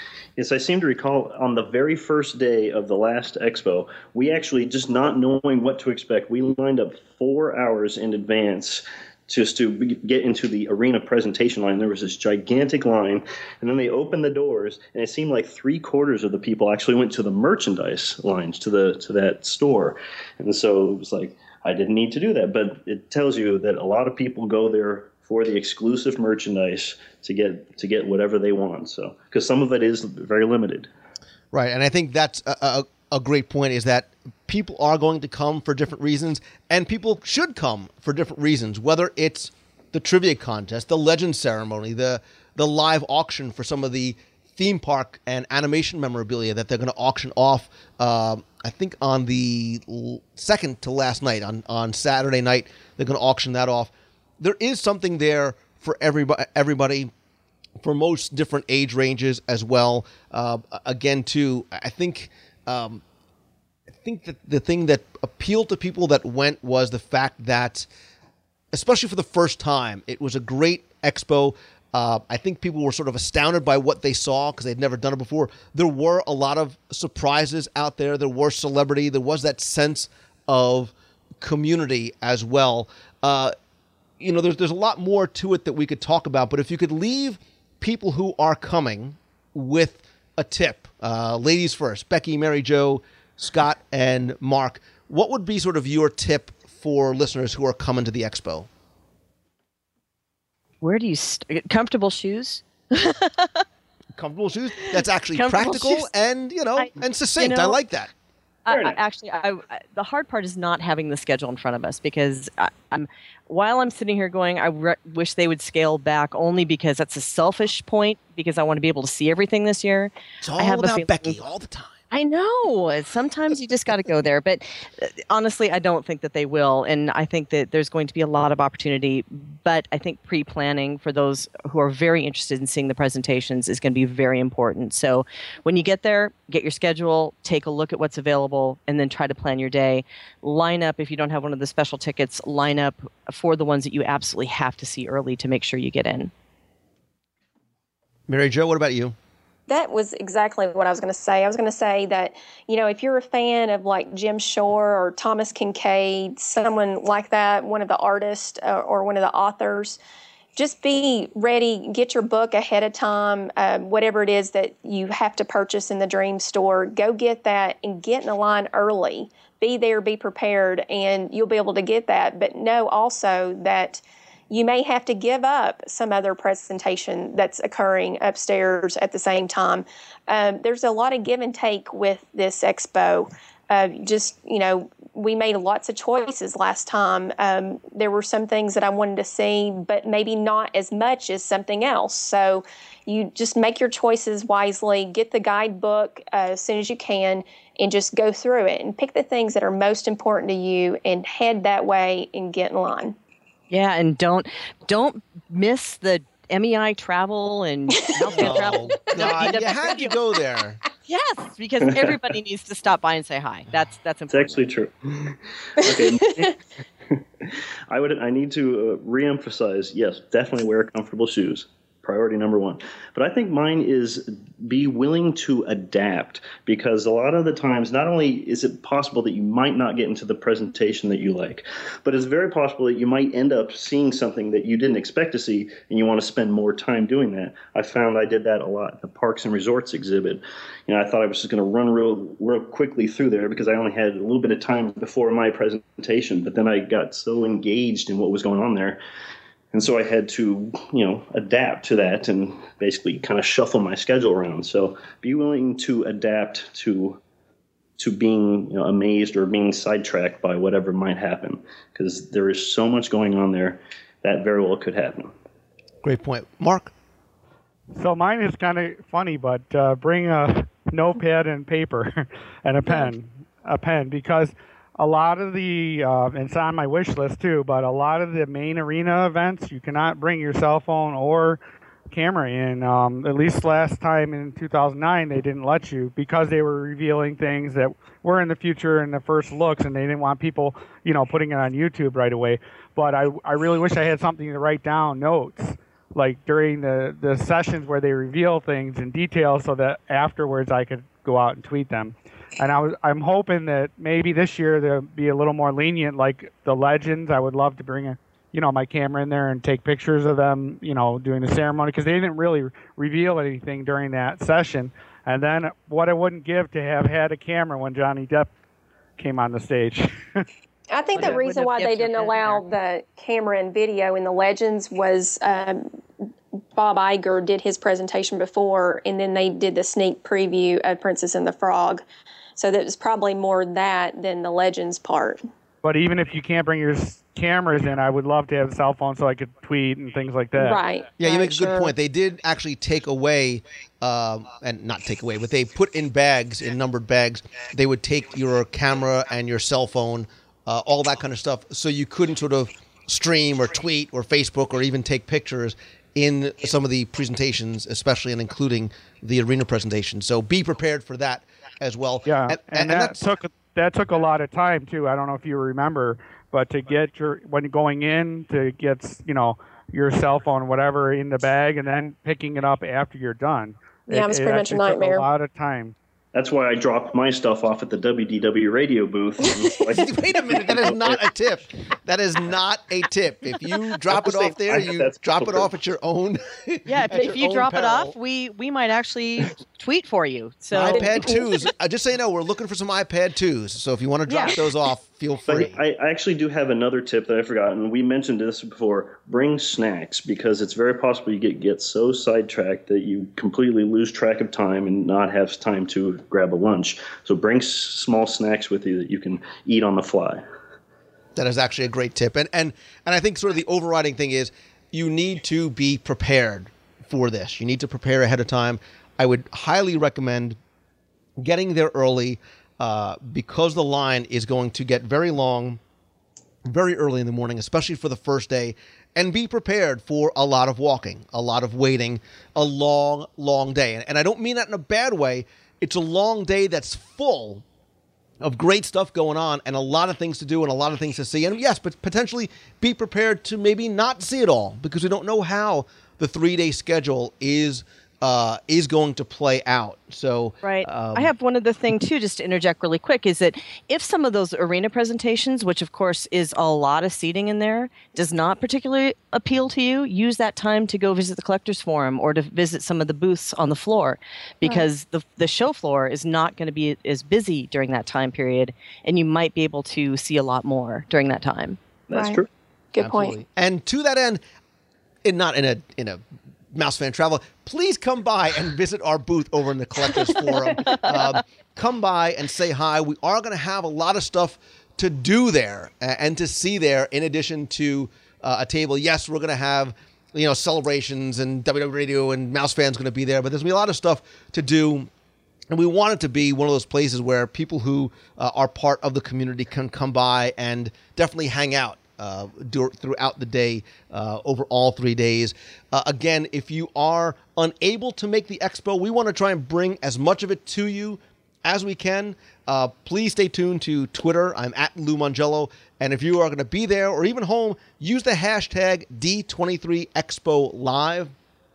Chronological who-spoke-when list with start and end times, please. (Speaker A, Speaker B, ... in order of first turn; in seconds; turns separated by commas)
Speaker A: 0.4-30.9, Speaker B: 31.5-57.1, Speaker B: 57.8-63.0, Speaker B: 63.9-67.9, Speaker B: 68.7-83.5, Speaker B: 84.2-98.7, Speaker C: 100.8-103.6, Speaker B: 104.1-108.1, Speaker C: 104.8-106.1, Speaker C: 106.8-107.8, Speaker C: 108.7-121.4, Speaker A: 108.7-109.0, Speaker B: 120.4-122.0, Speaker C: 122.1-146.3, Speaker B: 148.3-149.1, Speaker D: 149.7-160.0, Speaker D: 160.6-203.2, Speaker C: 203.7-210.1, Speaker D: 208.2-209.8, Speaker B: 208.3-210.8, Speaker C: 211.1-214.7, Speaker A: 214.3-216.6, Speaker A: 217.1-249.0, Speaker A: 249.7-257.2, Speaker A: 258.0-265.3, Speaker B: 266.0-266.9, Speaker E: 267.9-318.5, Speaker E: 319.2-320.4, Speaker D: 320.9-325.9, Speaker C: 321.1-322.7, Speaker D: 326.7-332.0, Speaker D: 332.6-335.4, Speaker E: 335.8-340.8, Speaker D: 340.6-341.9, Speaker B: 341.2-363.2, Speaker E: 362.3-375.9, Speaker D: 374.1-375.2, Speaker A: 376.3-381.3, Speaker B: 379.9-388.1, Speaker A: 384.1-385.7, Speaker C: 386.9-391.3, Speaker B: 390.7-395.8, Speaker C: 394.3-394.6, Speaker A: 395.5-410.4, Speaker B: 411.4-420.6, Speaker B: 421.4-425.8, Speaker B: 426.6-437.6, Speaker B: 438.4-451.3, Speaker C: 450.6-471.8, Speaker A: 472.1-472.5, Speaker D: 472.1-472.4, Speaker D: 472.9-473.4, Speaker B: 473.0-474.4, Speaker B: 475.2-476.2, Speaker B: 476.7-495.1, Speaker D: 480.7-480.9, Speaker C: 480.9-481.4, Speaker B: 495.7-521.3